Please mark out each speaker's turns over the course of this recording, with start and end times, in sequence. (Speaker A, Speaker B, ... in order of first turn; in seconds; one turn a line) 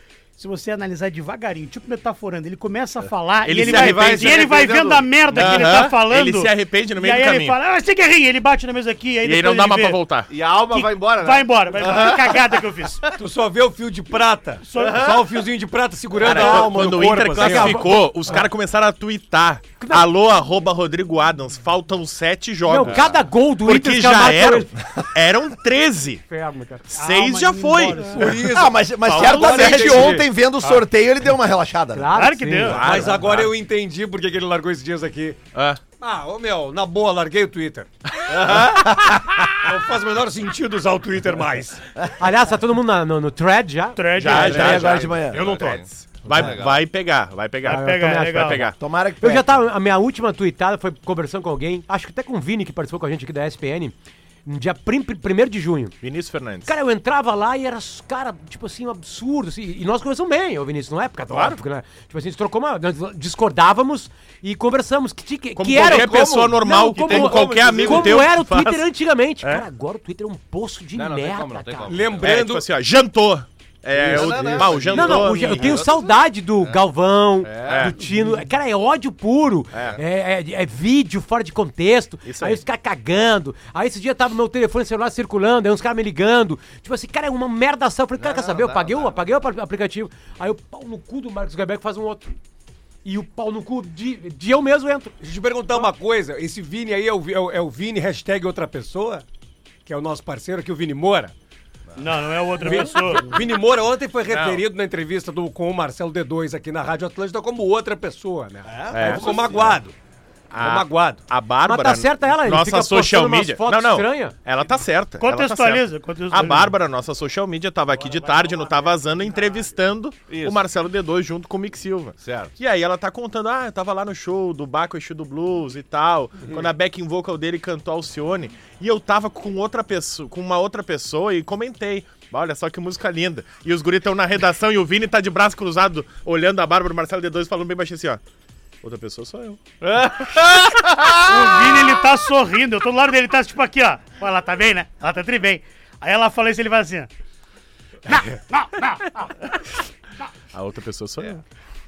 Speaker A: 0.4-10.0
Speaker B: 3.4-4.7
Speaker C: 3.5-5.7
Speaker B: 5.3-7.6
Speaker B: 9.2-10.3
Speaker C: 10.3-13.2
Speaker A: 10.7-13.1
Speaker D: 13.2-17.9
Speaker A: 14.6-15.1
Speaker C: 14.8-15.4
Speaker B: 16.2-26.2
Speaker E: 16.2-18.4
Speaker E: 19.8-20.1
Speaker E: 22.7-24.8
Speaker E: 26.3-26.9
Speaker B: 26.9-28.5
Speaker A: 26.9-28.4
Speaker D: 28.0-30.3
Speaker F: 28.4-32.1
Speaker B: 29.0-30.7
Speaker E: 31.9-32.9
Speaker A: 32.1-33.0
Speaker B: 32.6-33.5
Speaker D: 32.8-35.4
Speaker B: 35.5-35.8
Speaker D: 36.0-37.9
Speaker C: 38.3-38.6
Speaker B: 38.3-39.4
Speaker F: 38.7-39.1
Speaker D: 39.6-41.8
Speaker E: 42.2-44.0
Speaker A: 44.0-44.7
Speaker B: 44.2-48.8
Speaker F: 44.2-45.6
Speaker C: 44.3-46.8
Speaker D: 45.3-46.0
Speaker E: 47.6-56.0
Speaker A: 47.7-48.7
Speaker F: 48.8-49.6
Speaker B: 56.0-56.7
Speaker E: 56.7-71.9
Speaker B: 61.3-61.6
Speaker B: 65.6-68.9
Speaker C: 65.8-68.1
Speaker D: 66.8-67.9
Speaker C: 70.9-72.4
Speaker D: 71.9-72.7
Speaker B: 72.2-75.8
Speaker C: 74.0-76.8
Speaker D: 74.0-74.7
Speaker E: 74.9-92.3
Speaker C: 77.4-77.9
Speaker B: 77.7-78.0
Speaker B: 79.7-80.0
Speaker C: 79.7-80.0
Speaker B: 82.2-82.6
Speaker C: 88.2-89.2
Speaker E: 93.0-95.1
Speaker D: 95.2-99.2
Speaker D: 99.9-101.3
Speaker A: 102.0-103.4
Speaker D: 102.6-110.0
Speaker B: 104.3-104.6
Speaker F: 108.7-109.6
Speaker B: 108.9-109.8
Speaker B: 110.5-138.2
Speaker D: 110.6-111.2
Speaker E: 111.6-114.4
Speaker A: 115.2-116.8
Speaker D: 118.0-119.3
Speaker C: 120.3-120.6
Speaker C: 122.2-122.5
Speaker B: 138.8-140.8
Speaker C: 139.8-141.0
Speaker A: 141.2-147.1
Speaker A: 148.1-149.2
Speaker B: 150.5-151.4